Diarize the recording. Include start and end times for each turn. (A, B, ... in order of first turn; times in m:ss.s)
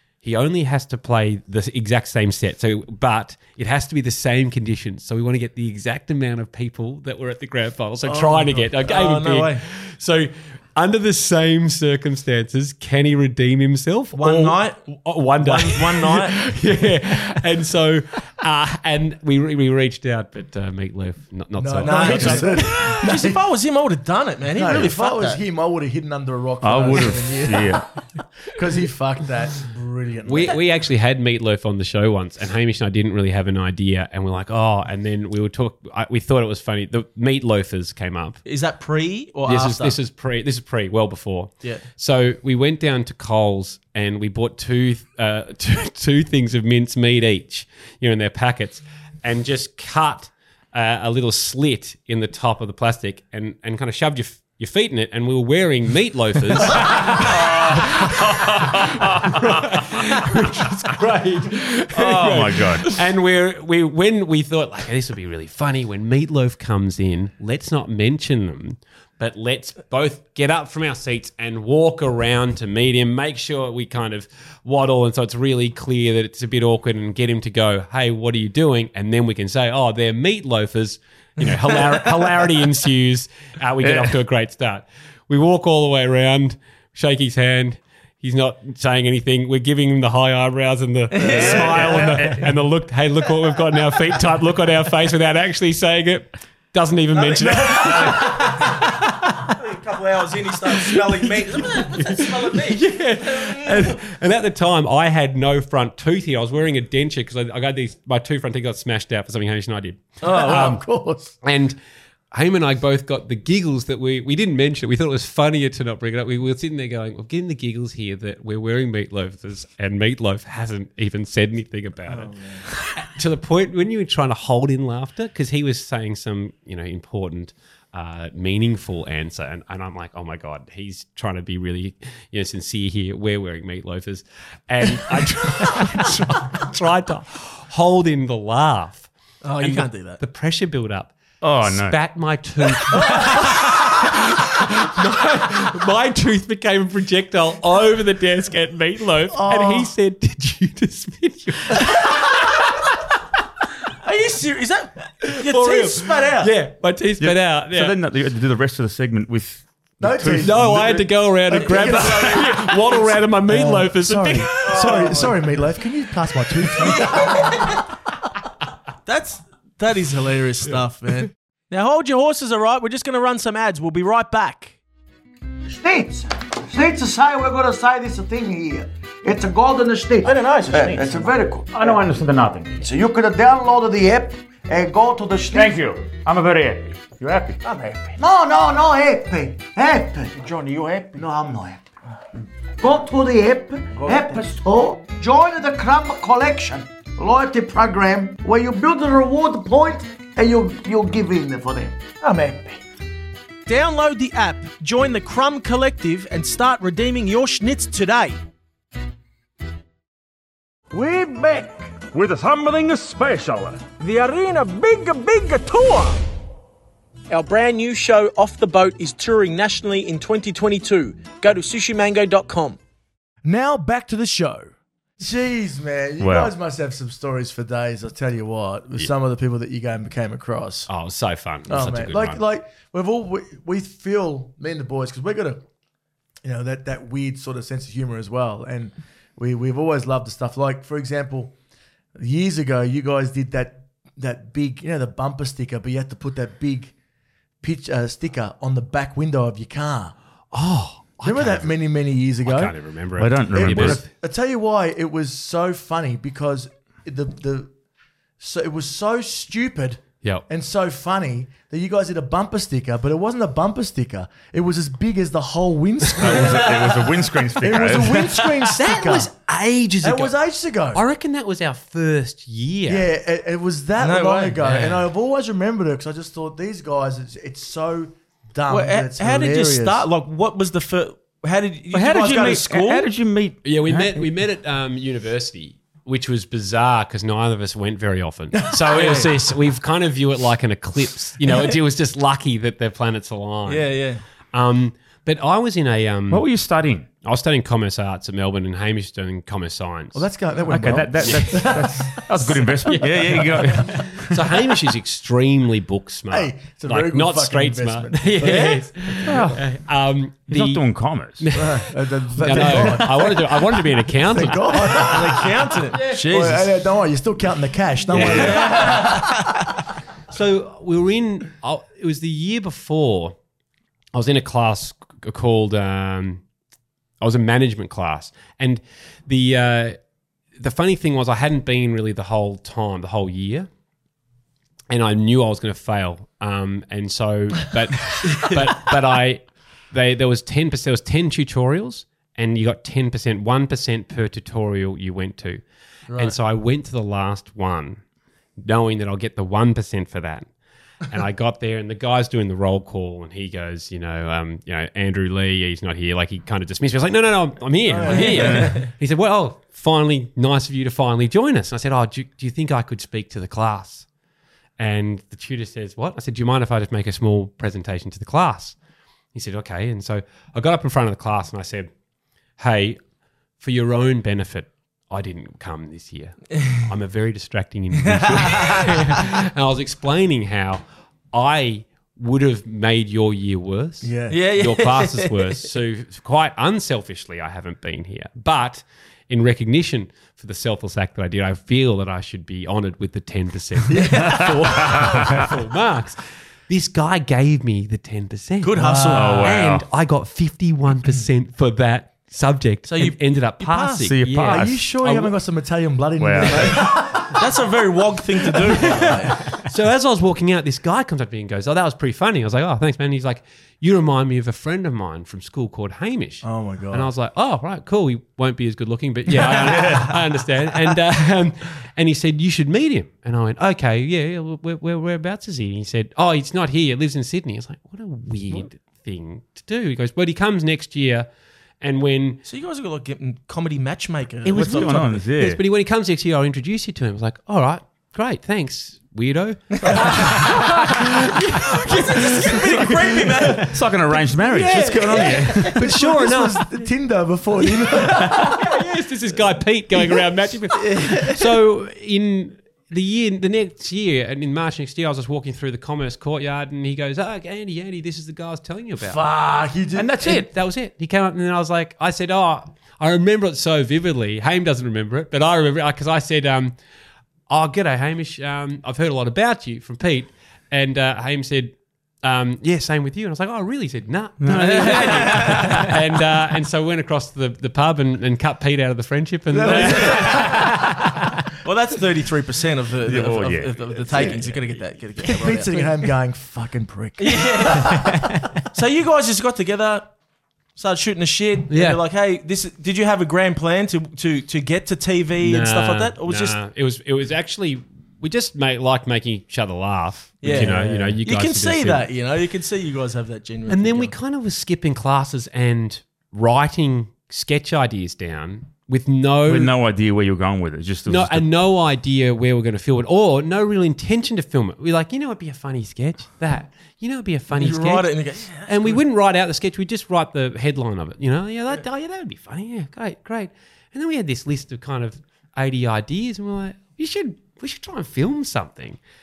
0:00.2-0:23.0 A
0:08.1-0:09.6 B
0:14.1-0:14.8 B
0:15.4-0:16.4 B
0:21.6-0:23.4 C
0:21.8-0:25.4 B
0:24.6-0:27.9 C
0:26.6-0:27.9 D
0:28.5-0:30.6 C
0:30.2-0:38.4 A
0:38.5-0:40.0 B
0:39.5-1:39.5 A
0:57.1-0:59.4 D
1:01.9-1:03.0 D
1:23.8-1:24.2 D
1:31.1-1:32.3 B
1:31.2-1:32.6 D
1:37.1-1:38.9 B
1:39.5-1:44.0 B
1:40.7-1:50.8 A
1:50.2-1:50.8 B
1:50.2-1:51.3 C
1:51.4-1:51.8 A
1:52.3-2:32.9 A
2:02.1-2:02.6 C
2:19.4-2:20.2 B
2:21.4-2:22.0 D
2:29.3-2:29.9 C
2:34.0-2:36.5 B
2:35.2-2:38.0 A
2:37.2-2:40.9 D
2:40.0-2:47.6 C
2:40.4-2:45.3 A
2:41.7-2:42.2 B
2:44.6-2:45.4 B
2:46.8-2:47.6 B
2:49.1-2:54.8 B
2:55.8-3:01.6 E
3:00.2-3:01.6 C
3:00.2-3:01.2 B
3:01.7-3:02.9 D
3:02.9-3:05.6 E
3:05.5-3:07.6 D
3:08.2-3:11.8 E
3:11.1-3:11.5 C
3:12.8-3:22.6 E
3:14.0-3:14.4 C
3:23.7-3:28.4 B
3:32.1-3:33.8 D
3:34.0-3:36.2 B
3:37.3-3:42.8 B
3:43.4-3:50.9 C
3:46.2-3:46.5 D
3:50.9-3:52.4 A
3:51.7-3:55.6 C
3:56.4-4:01.5 C
4:02.2-4:06.9 C
4:07.6-4:10.2 C
4:10.5-4:11.8 A
4:11.2-4:12.8 C
4:12.4-4:14.0 A
4:13.2-4:14.1 D
4:13.5-4:17.7 C
4:18.4-4:29.3 C
4:26.2-4:28.3 D
4:26.3-4:26.9 A
4:28.1-4:30.4 A
4:30.0-4:31.0 C
4:30.9-4:33.1 A
4:32.9-4:40.1 C
4:34.0-4:34.7 B
4:34.6-4:35.1 A
4:38.7-4:43.1 B
4:41.9-4:44.3 D
4:43.6-4:53.9 A
4:48.9-4:49.3 B
4:53.7-4:54.2 B
4:54.5-4:56.5 A
4:56.3-4:57.1 D
4:57.2-5:00.3 A
5:00.1-5:02.4 C
5:00.7-5:04.4 D
5:01.2-5:10.8 A
5:06.3-5:08.8 C
5:08.4-5:08.8 B
5:09.3-5:09.6 D
5:10.5-5:11.5 D
5:11.4-5:16.3 A
5:11.5-5:15.5 C
5:14.9-5:16.8 B
5:16.1-5:19.3 C
5:18.1-5:19.2 A
5:18.1-5:19.5 B
5:20.3-5:23.4 A
5:24.1-5:26.4 A
5:27.2-5:30.0 A
5:30.6-5:33.7 A
5:34.9-5:45.6 A
5:46.1-5:46.4 C
5:46.2-5:48.0 A
5:48.6-5:50.5 A
5:51.1-6:04.1 A
5:57.9-5:58.8 C
5:58.1-5:58.9 B
6:04.8-6:08.8 A
6:09.3-6:11.9 A
6:12.6-6:13.0 A
6:13.6-6:45.3 A
6:18.0-6:18.9 B
6:24.0-6:24.4 C
6:24.3-6:25.5 B
6:33.9-6:34.5 C
6:34.0-6:35.0 B
6:34.8-6:35.5 D
6:38.6-6:39.5 B
6:38.8-6:39.4 C
6:39.1-6:39.9 D
6:42.9-6:44.1 B
6:44.0-6:44.8 D
6:44.5-6:47.4 C
6:46.2-6:46.8 D
6:46.5-6:49.5 B
6:48.9-7:11.3 A
6:56.4-6:57.1 C
7:11.8-7:12.4 A
7:12.4-7:15.1 B
7:14.4-7:26.9 A
7:14.5-7:15.6 D
7:21.8-7:23.8 B
7:23.6-7:25.8 D
7:24.6-7:25.5 B
7:25.5-7:28.6 C
7:27.7-7:39.2 A
7:30.9-7:31.4 C
7:39.0-7:40.1 C
7:40.0-7:40.5 D
7:40.1-7:46.8 A
7:47.5-8:01.4 A
7:54.4-7:56.0 D
7:54.7-7:55.6 B
7:59.5-8:00.6 C
7:59.7-8:00.3 B
8:01.6-8:05.9 B
8:03.0-8:04.8 D
8:05.2-8:08.0 C
8:07.2-8:08.1 B
8:07.9-8:08.5 A
8:08.7-8:10.1 B
8:10.8-8:16.6 B
8:11.7-8:12.0 A
8:15.4-8:22.1 A
8:20.4-8:24.1 B
8:20.5-8:21.2 C
8:23.7-8:29.7 A
8:29.5-8:31.5 D
8:31.1-8:49.0 A
8:37.5-8:39.0 B